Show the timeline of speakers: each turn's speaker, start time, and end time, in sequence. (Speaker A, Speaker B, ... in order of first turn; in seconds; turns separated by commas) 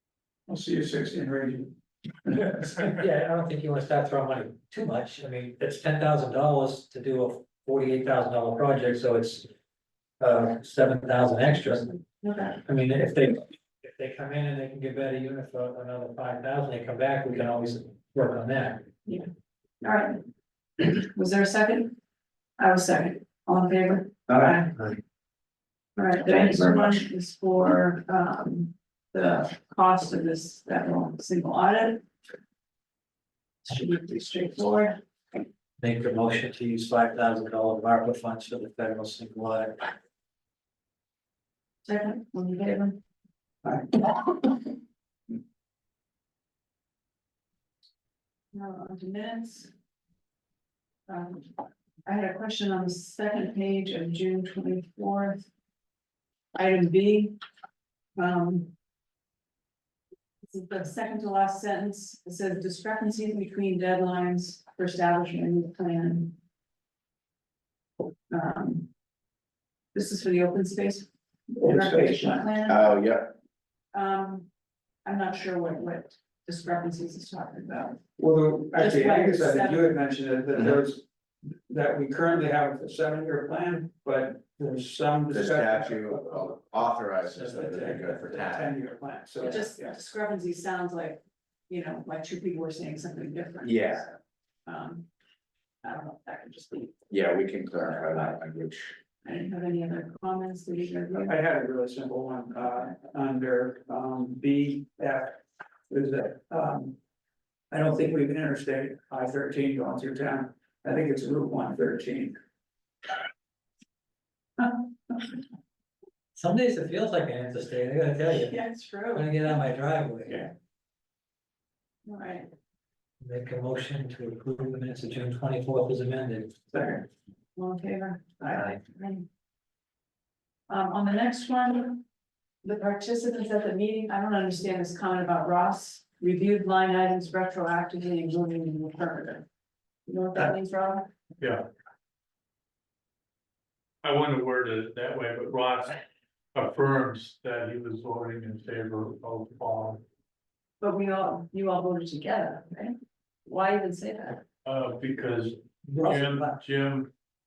Speaker A: 0.5-2.9, Speaker B: 2.6-9.5, Speaker B: 10.2-12.0, Speaker C: 12.2-12.6, Speaker B: 12.7-18.9, Speaker C: 19.8-20.2, Speaker C: 20.8-22.0, Speaker C: 22.6-24.8, Speaker A: 24.3-24.6, Speaker C: 26.0-32.1, Speaker C: 33.7-35.0, Speaker B: 35.8-39.9, Speaker C: 41.9-43.0, Speaker A: 43.6-44.1, Speaker C: 48.5-49.7, Speaker C: 51.1-51.5, Speaker C: 52.1-55.5, Speaker C: 56.5-57.4, Speaker C: 58.2-58.7, Speaker C: 60.5-66.4, Speaker C: 68.3-68.9, Speaker C: 69.9-73.0, Speaker A: 71.6-72.4, Speaker D: 72.7-73.4, Speaker C: 73.9-74.5, Speaker C: 75.0-78.0, Speaker A: 78.2-89.9, Speaker C: 78.7-79.9, Speaker D: 85.3-88.8, Speaker C: 89.4-95.1, Speaker D: 93.6-94.1, Speaker C: 95.8-98.4, Speaker D: 97.1-99.0, Speaker C: 99.2-101.3, Speaker A: 101.2-107.0, Speaker A: 107.7-112.4, Speaker B: 116.4-118.6, Speaker C: 118.3-119.4, Speaker B: 119.1-120.4, Speaker C: 122.1-122.5, Speaker B: 123.2-126.6, Speaker A: 126.7-127.1, Speaker C: 127.6-129.3, Speaker A: 128.4-128.7, Speaker C: 130.7-132.0, Speaker C: 132.6-139.5, Speaker C: 140.1-141.1, Speaker E: 141.4-141.6, Speaker E: 144.0-146.0, Speaker E: 146.6-150.0, Speaker C: 150.8-154.4, Speaker E: 154.7-157.1, Speaker B: 156.0-156.6